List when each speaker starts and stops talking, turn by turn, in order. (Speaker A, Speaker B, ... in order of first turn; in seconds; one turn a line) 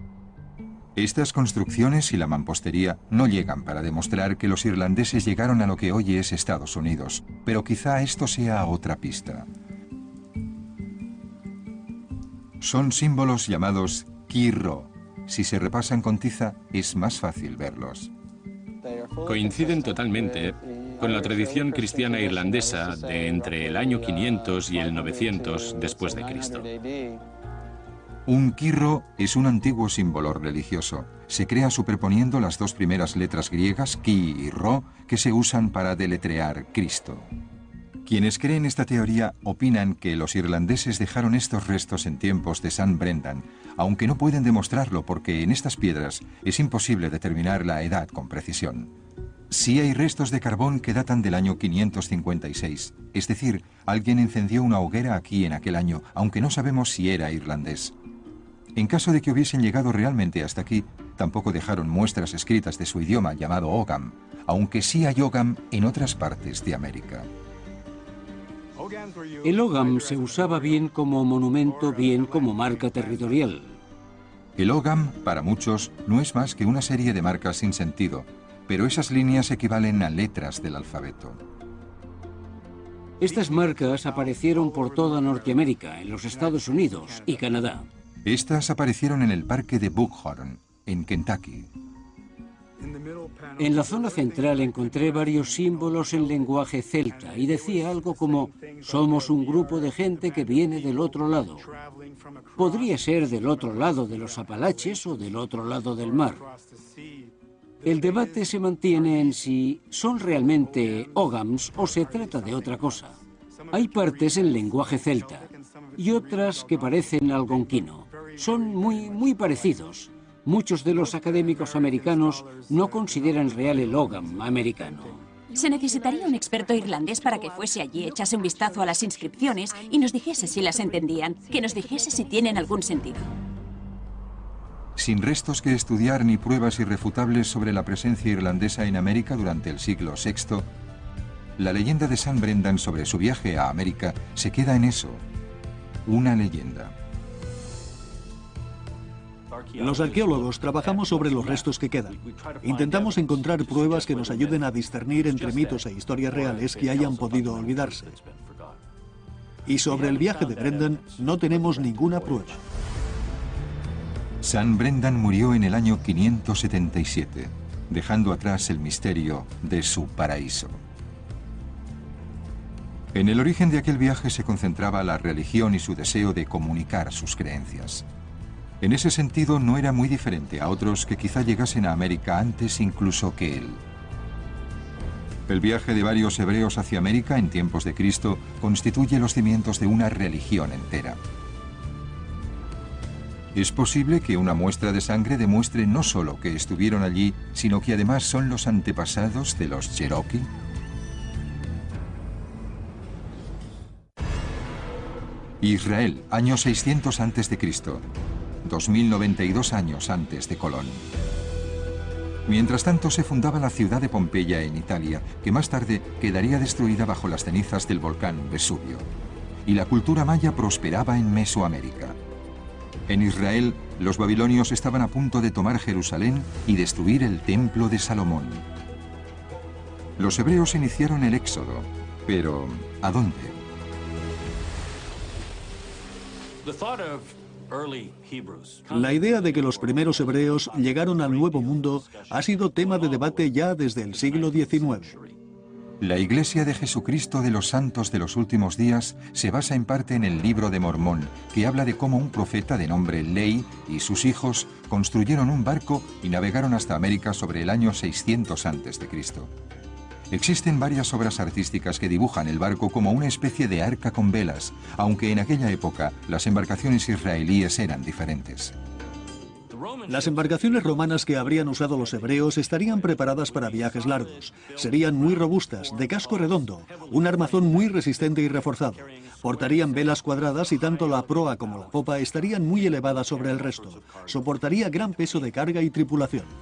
Speaker A: 1.0-9.5
Speaker A: 12.6-18.1
Speaker B: 19.2-26.7
Speaker A: 28.3-37.3
Speaker A: 38.0-48.9
Speaker A: 49.5-57.9
Speaker A: 58.8-67.3
Speaker C: 69.4-73.8
Speaker A: 74.6-81.4
Speaker C: 83.2-87.9
Speaker A: 88.2-91.7
Speaker C: 93.6-101.7
Speaker C: 102.6-106.5
Speaker C: 107.8-113.2
Speaker C: 113.7-125.2
Speaker D: 125.5-133.3
Speaker A: 135.0-140.7
Speaker A: 141.6-145.2
Speaker A: 146.1-146.9
Speaker E: 149.8-158.2
Speaker E: 159.7-162.6
Speaker A: 164.4-170.8
Speaker A: 173.1-178.1
Speaker A: 178.8-183.8
Speaker A: 185.5-191.2
Speaker A: 193.6-200.5
Speaker A: 205.6-208.1
Speaker A: 208.6-211.0
Speaker A: 212.5-219.1
Speaker A: 219.7-222.2
Speaker A: 223.1-228.7
Speaker A: 230.2-233.6
Speaker E: 238.9-245.2
Speaker A: 246.0-259.5
Speaker A: 260.3-268.8
Speaker E: 270.1-286.5